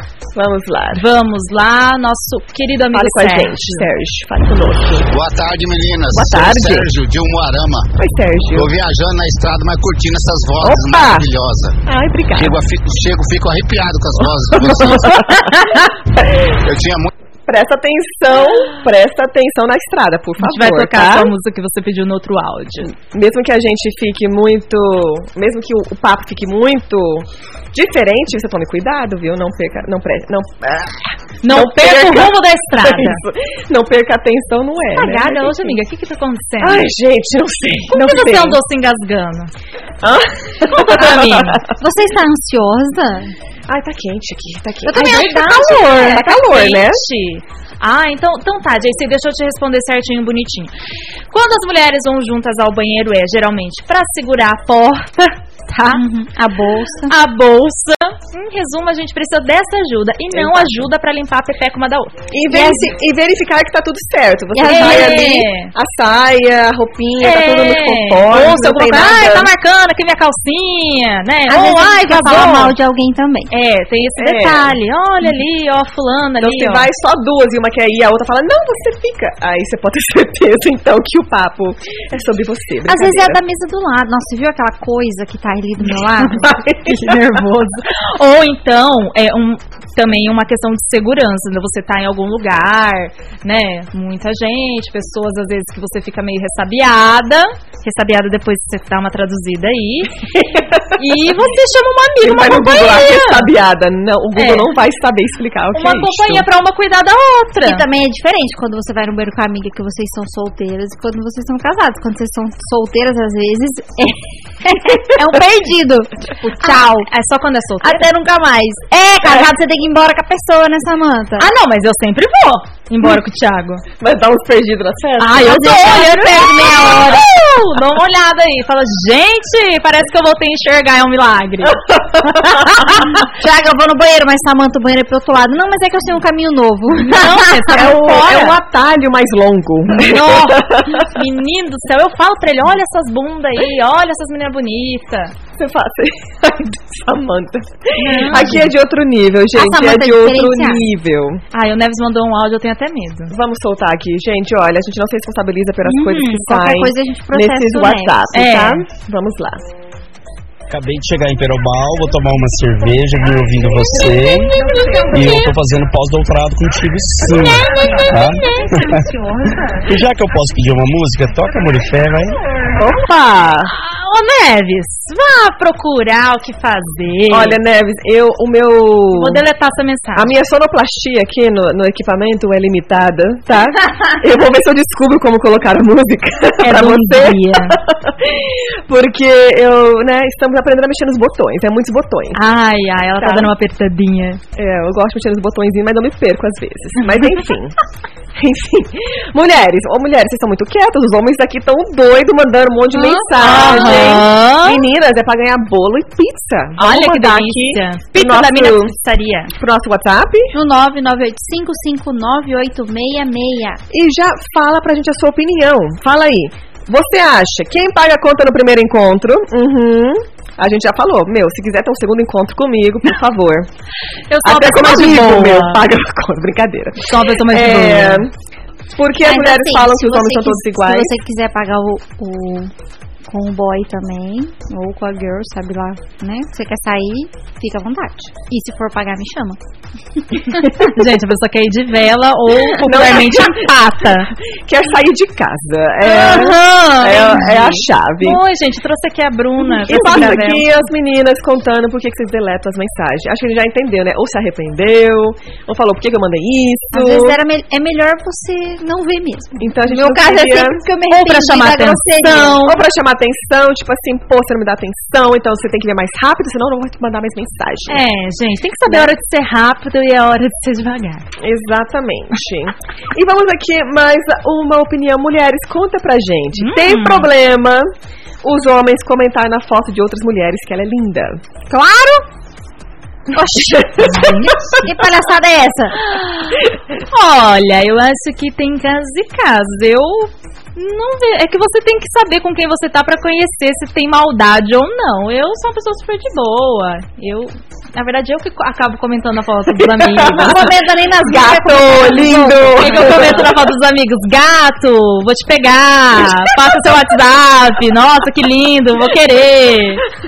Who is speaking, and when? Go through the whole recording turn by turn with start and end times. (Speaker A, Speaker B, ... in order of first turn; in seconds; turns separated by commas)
Speaker A: 0.3-1.0, Speaker B: 0.9-3.9, Speaker A: 2.9-5.1, Speaker C: 5.1-7.9, Speaker A: 6.1-6.9, Speaker A: 8.0-8.7, Speaker C: 8.5-11.8, Speaker A: 10.6-11.3, Speaker A: 11.8-12.6, Speaker C: 12.3-15.5, Speaker A: 14.5-16.4, Speaker C: 16.5-17.1, Speaker A: 17.5-21.3, Speaker B: 20.4-22.9, Speaker A: 22.8-35.8, Speaker B: 31.4-33.2, Speaker B: 35.0-36.9, Speaker A: 36.6-38.6, Speaker B: 37.9-39.5, Speaker A: 40.0-41.6, Speaker B: 40.7-41.6, Speaker D: 41.8-43.3, Speaker A: 43.7-47.0, Speaker D: 44.9-46.2, Speaker B: 44.9-50.7, Speaker B: 51.3-56.0, Speaker D: 55.9-57.1, Speaker B: 57.1-62.1, Speaker A: 60.3-60.8, Speaker A: 62.3-69.5, Speaker D: 62.5-62.9, Speaker D: 64.5-65.5, Speaker B: 64.7-65.7, Speaker B: 67.2-72.7, Speaker D: 71.5-73.5, Speaker B: 73.5-76.9, Speaker A: 74.2-74.8, Speaker A: 76.4-83.4, Speaker D: 82.9-86.5, Speaker A: 86.4-87.2, Speaker B: 86.8-100.2, Speaker A: 100.3-100.8, Speaker B: 100.9-103.5, Speaker A: 102.2-106.5, Speaker B: 104.4-104.7, Speaker B: 105.7-107.8, Speaker D: 107.6-117.1, Speaker B: 116.6-118.1, Speaker D: 117.8-121.5, Speaker A: 119.2-119.5, Speaker B: 121.4-123.8, Speaker A: 124.0-125.6, Speaker B: 125.2-133.2, Speaker D: 125.2-127.3, Speaker A: 131.7-132.6, Speaker D: 133.2-137.7, Speaker B: 137.0-138.6, Speaker A: 137.7-141.1, Speaker B: 139.9-145.3, Speaker A: 145.6-151.4, Speaker B: 148.0-148.7, Speaker D: 149.6-150.8, Speaker B: 151.5-153.3, Speaker A: 153.3-159.7, Speaker D: 155.8-158.3, Speaker B: 158.3-158.8, Speaker E: 160.7-164.6, Speaker A: 164.5-165.3, Speaker B: 164.5-165.2, Speaker E: 165.1-169.0, Speaker B: 167.2-168.9, Speaker E: 169.8-172.4, Speaker A: 172.8-173.7, Speaker B: 173.7-177.6, Speaker A: 177.3-179.4, Speaker B: 179.1-180.3, Speaker A: 180.2-192.4, Speaker B: 186.6-187.8, Speaker B: 192.3-194.4, Speaker A: 193.2-193.5, Speaker A: 194.6-197.8, Speaker B: 197.0-197.3, Speaker A: 198.3-208.9, Speaker D: 202.9-204.2, Speaker B: 203.4-204.8, Speaker B: 206.8-209.5, Speaker A: 209.6-210.5, Speaker D: 210.5-213.8, Speaker A: 213.9-223.7, Speaker B: 224.3-225.8, Speaker A: 224.4-228.3, Speaker B: 227.1-228.3, Speaker A: 229.0-231.1, Speaker D: 229.2-232.7, Speaker D: 233.3-239.6, Speaker B: 240.6-244.3, Speaker A: 242.8-243.7, Speaker A: 244.5-248.4, Speaker B: 246.1-250.7, Speaker D: 246.2-247.3, Speaker A: 249.6-257.4, Speaker D: 256.9-262.6, Speaker A: 259.6-260.8, Speaker B: 261.1-262.8, Speaker A: 262.6-268.0, Speaker B: 267.9-271.3, Speaker A: 271.4-281.7, Speaker B: 276.6-277.3, Speaker D: 281.8-282.2, Speaker A: 283.4-284.8, Speaker B: 283.9-284.9, Speaker D: 284.6-286.0, Speaker B: 286.0-300.7, Speaker A: 299.7-300.7, Speaker D: 300.3-303.5, Speaker A: 301.2-303.6, Speaker B: 302.8-310.1